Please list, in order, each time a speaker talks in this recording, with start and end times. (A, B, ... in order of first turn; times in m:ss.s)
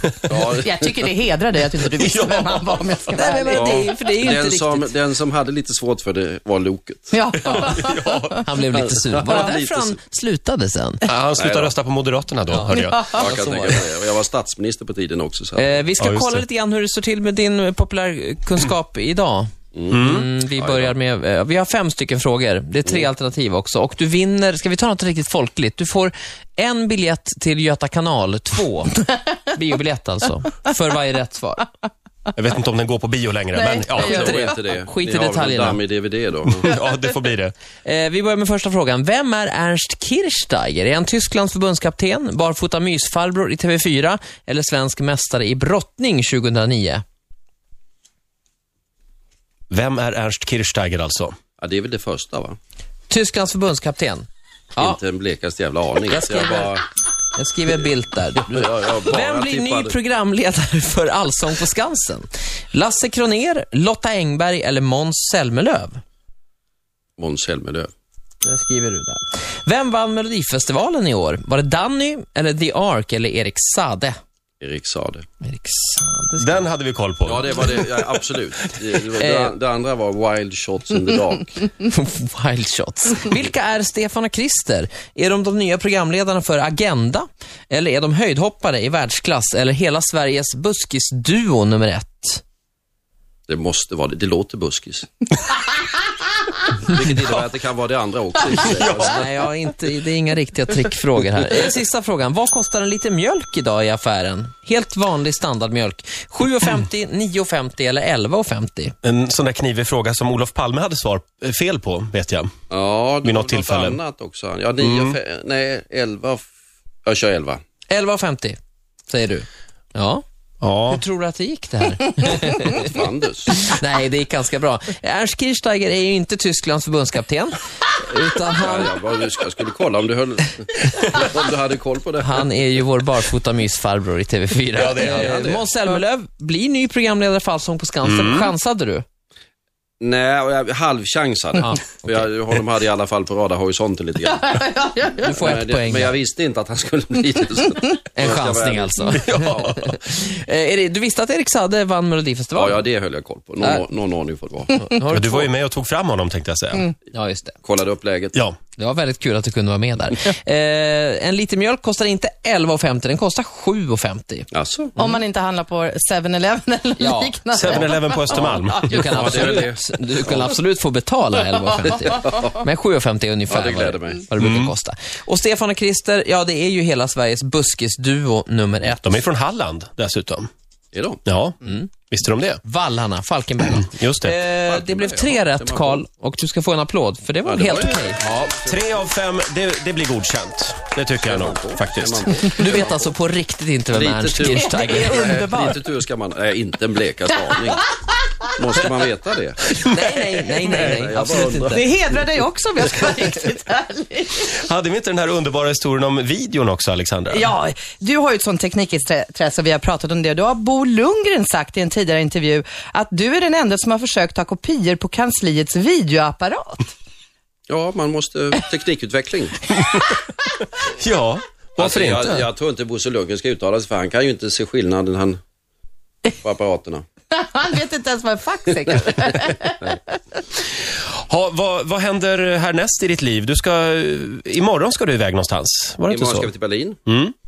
0:00.3-0:00.8 A
0:00.6-0:03.8 B
0:02.0-0:02.8 C
0:03.2-0:04.9 D
0:03.5-0:07.2 A
0:07.1-0:08.4 B
0:07.4-0:08.5 C
0:08.4-0:11.0 D
0:08.7-0:10.0 A
0:11.0-0:13.0 C
0:11.4-0:11.7 A
0:12.5-0:13.9 D
0:12.7-0:13.2 B
0:13.1-0:15.9 A
0:15.6-0:31.7 D
0:16.0-0:16.4 C
0:19.7-0:20.9 A
0:19.9-0:20.3 C
0:32.4-0:34.4 C
0:33.5-0:34.3 B
0:34.0-0:35.8 D
0:34.0-0:36.7 A
0:36.5-0:37.5 C
0:37.8-0:47.0 D
0:49.7-0:51.4 C
0:51.6-0:52.6 A
0:53.1-0:55.0 D
0:54.8-0:56.8 A
0:56.1-1:06.0 D
0:58.4-1:00.0 A
1:07.2-1:07.9 A
1:08.4-1:14.1 D
1:14.6-1:15.2 A
1:15.4-1:16.7 D
1:16.4-1:17.7 C
1:17.2-1:21.5 A
1:19.2-1:19.5 D
1:21.7-1:32.4 D
1:33.5-1:35.3 A
1:36.8-1:39.2 A
1:38.7-1:39.2 C
1:38.8-1:48.9 D
1:49.0-1:52.5 C
1:52.7-1:56.4 A
1:53.2-1:54.0 C
1:54.8-1:55.2 C
1:57.0-1:57.6 A
1:57.9-2:00.2 D
2:00.6-2:01.0 C
2:00.9-2:02.9 D
2:02.7-2:03.5 A
2:03.6-2:08.9 D
2:08.6-2:12.4 A
2:12.2-2:19.0 D
2:14.7-2:15.6 C
2:14.9-2:15.6 A
2:18.0-2:18.5 C
2:20.0-2:24.5 A
2:21.6-2:22.3 D
2:24.3-2:25.3 B
2:25.2-2:26.1 D
2:25.3-2:29.7 A
2:28.1-2:32.8 D
2:29.2-2:29.9 C
2:32.5-2:34.8 A
2:34.8-2:35.5 D
2:35.1-2:36.9 C
2:37.1-2:37.5 D
2:37.6-2:38.3 A
2:38.3-2:38.6 C
2:38.8-2:45.2 D
2:44.5-2:44.9 A
2:45.0-2:48.5 B
2:47.0-2:47.7 D
2:47.5-2:49.6 C
2:48.3-2:50.5 A
2:48.8-2:59.2 D
2:51.8-2:52.3 A
2:53.5-2:54.2 A
2:54.4-2:54.7 C
2:59.0-3:00.5 C
3:00.9-3:01.2 A
3:01.2-3:01.6 C
3:01.6-3:01.9 D
3:02.1-3:02.6 C
3:02.6-3:08.5 D
3:03.8-3:04.3 C
3:04.6-3:06.0 A
3:07.4-3:08.8 A
3:08.6-3:12.3 C
3:11.2-3:13.1 A
3:12.5-3:15.3 D
3:13.9-3:17.8 A
3:14.5-3:15.8 B
3:17.5-3:18.0 B
3:18.6-3:19.6 A
3:19.9-3:21.8 D
3:20.8-3:21.8 A
3:21.7-3:24.5 B
3:24.5-3:27.5 C
3:27.3-3:36.9 B
3:37.7-3:39.6 A
3:40.8-3:42.4 C
3:41.8-3:45.4 A
3:46.4-3:47.0 A
3:47.3-3:50.0 B
3:51.1-3:56.5 C
3:56.1-3:57.0 A
3:57.1-3:57.3 C